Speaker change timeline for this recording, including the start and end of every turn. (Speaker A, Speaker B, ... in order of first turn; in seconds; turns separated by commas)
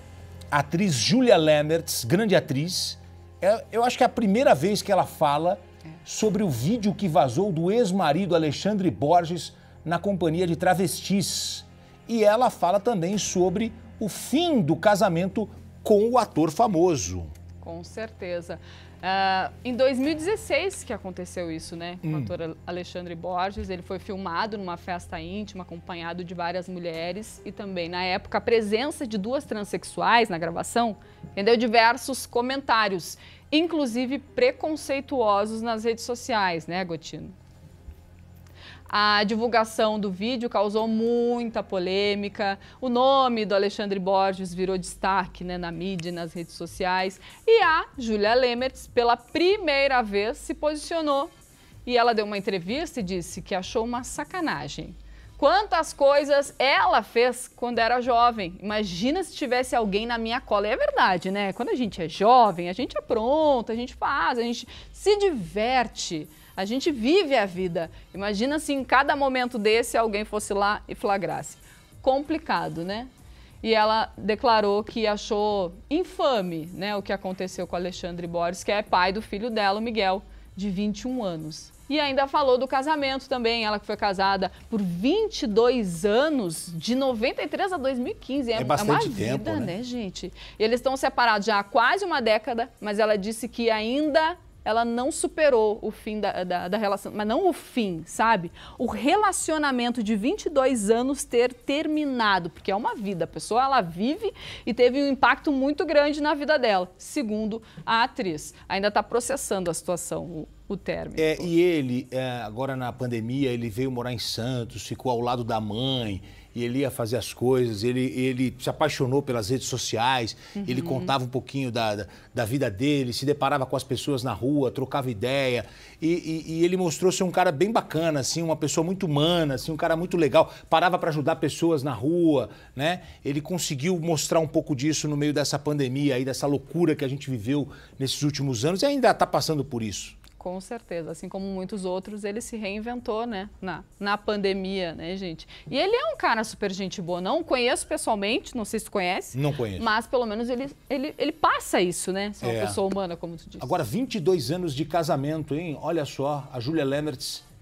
Speaker A: 0.5-17.3, Speaker B: 17.6-37.3, Speaker A: 22.0-22.3, Speaker B: 38.9-51.3, Speaker B: 51.8-73.1, Speaker B: 73.6-111.5, Speaker A: 88.5-89.7, Speaker A: 111.2-140.2, Speaker B: 120.6-121.1, Speaker B: 140.4-153.7, Speaker A: 149.3-149.9, Speaker A: 152.4-152.8, Speaker A: 153.6-157.4